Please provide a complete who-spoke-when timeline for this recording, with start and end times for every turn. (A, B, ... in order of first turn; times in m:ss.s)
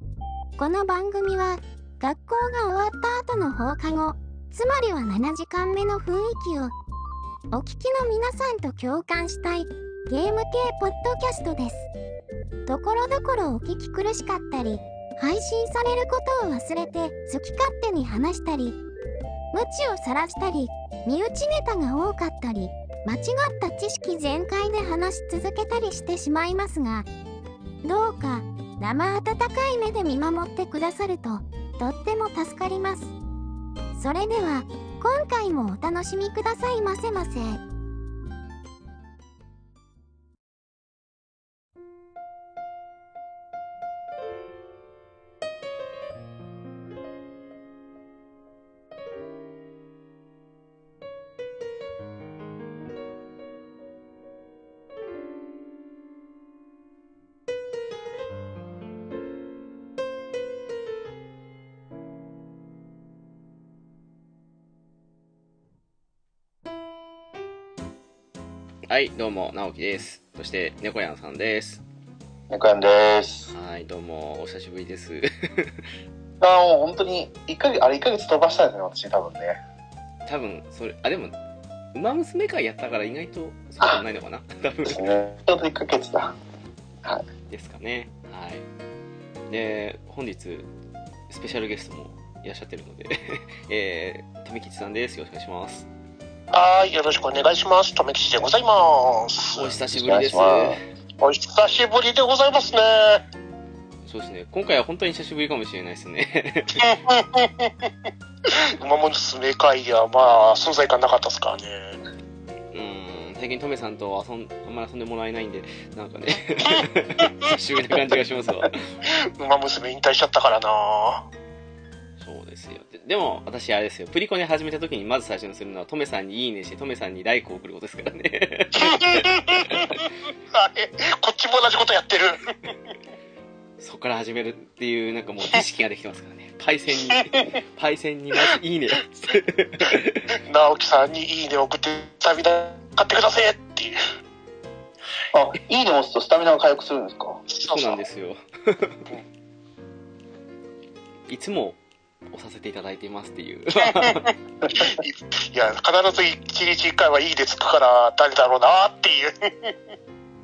0:00.6-0:06.7 A
0:07.5-0:11.9 A
0:12.7-0:18.8 A
0:19.5-0:27.1 A
0:27.8-0:33.2 A
0:34.0-0:37.6 A
1:08.9-1:11.8 B
1:12.5-1:13.5 C
1:13.5-1:15.8 B
1:16.4-1:19.6 C
1:20.2-1:21.3 B
1:21.9-1:25.2 B
1:24.8-1:26.4 C
1:27.5-1:28.6 B
1:29.5-1:30.7 B
1:31.3-1:35.9 B
1:36.5-1:39.8 D
1:39.5-1:40.8 B
1:39.9-1:40.8 C
1:41.2-1:43.2 D
1:44.1-1:46.9 B
1:46.8-1:47.9 D
1:48.5-1:52.0 D
1:52.7-1:58.9 B
1:59.4-2:01.2 D
2:02.2-2:10.0 B
2:08.8-2:12.7 D
2:13.8-2:20.3 B
2:17.1-2:17.4 D
2:20.4-2:24.0 D
2:25.3-2:27.4 C
2:27.5-2:28.0 D
2:27.7-2:29.0 B
2:31.3-2:31.8 B
2:32.3-2:34.3 B
2:33.8-2:39.8 D
2:34.6-2:34.9 C